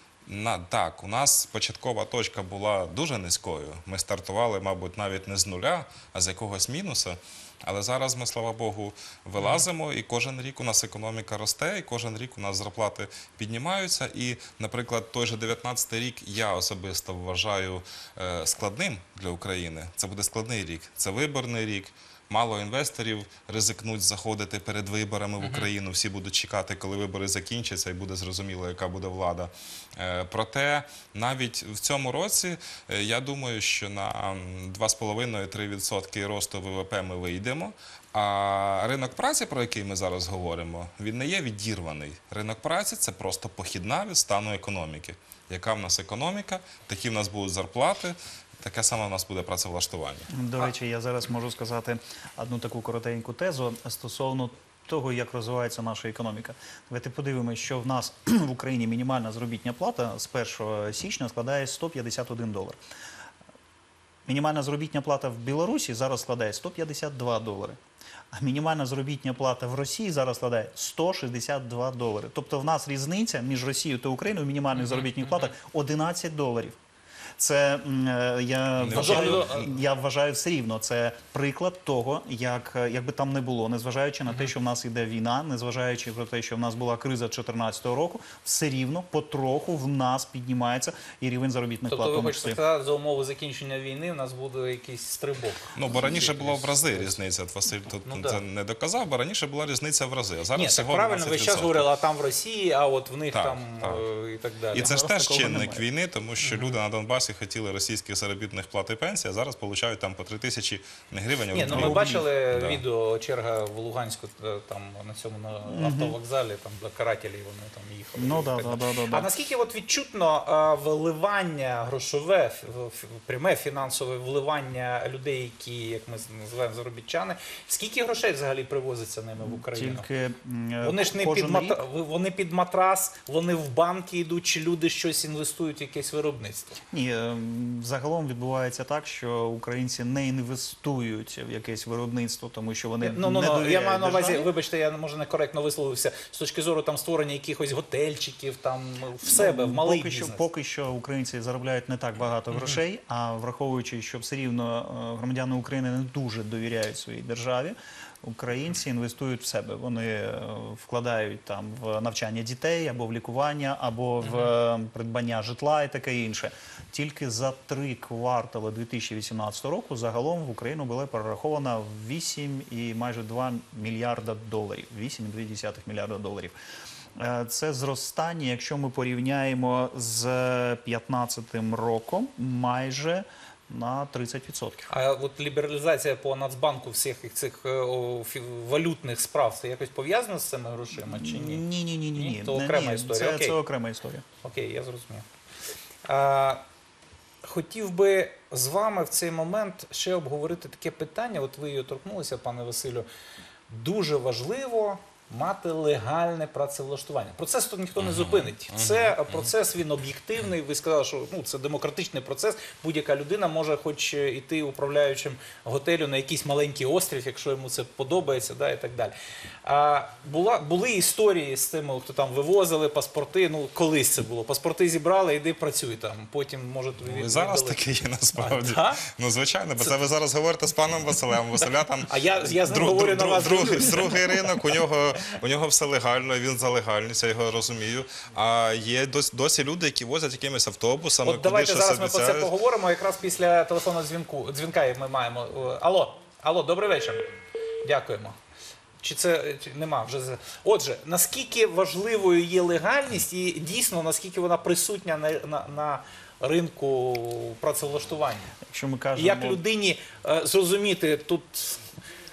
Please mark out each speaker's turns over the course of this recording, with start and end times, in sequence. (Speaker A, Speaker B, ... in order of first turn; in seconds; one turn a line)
Speaker A: 0.3-50.3
Speaker B: 9.4-9.7
Speaker B: 25.4-25.7
Speaker C: 50.3-62.8
Speaker C: 64.3-67.8
Speaker C: 68.3-76.8
Speaker B: 74.8-75.5
Speaker C: 77.4-92.6
Speaker A: 78.8-79.5
Speaker B: 78.9-79.7
Speaker B: 91.9-97.2
Speaker A: 95.8-101.9
Speaker B: 98.0-98.4
Speaker B: 100.5-104.9
Speaker A: 103.3-104.0
Speaker A: 104.7-112.8
Speaker C: 104.8-105.8
Speaker B: 106.4-106.8
Speaker B: 111.5-130.1
Speaker C: 111.7-112.2
Speaker C: 115.7-116.2
Speaker C: 118.2-119.3
Speaker C: 129.4-131.8
Speaker B: 130.8-136.8
Speaker C: 136.9-144.5
Speaker B: 143.0-150.4
Speaker C: 149.2-176.6
Speaker B: 152.5-152.8
Speaker B: 164.2-164.5
Speaker C: 177.2-184.9
Speaker B: 184.9-193.6
Speaker C: 191.0-194.2
Speaker B: 194.4-195.3
Speaker B: 196.1-196.6
Speaker B: 197.4-203.1
Speaker B: 203.7-227.8
Speaker A: 208.0-209.5
Speaker A: 227.0-242.5
Speaker B: 228.4-229.1
Speaker B: 229.8-230.0
Speaker B: 232.1-234.5
Speaker B: 241.2-247.3
Speaker B: 247.8-248.4
Speaker B: 249.0-258.6
Speaker C: 258.7-259.6
Speaker B: 259.2-261.9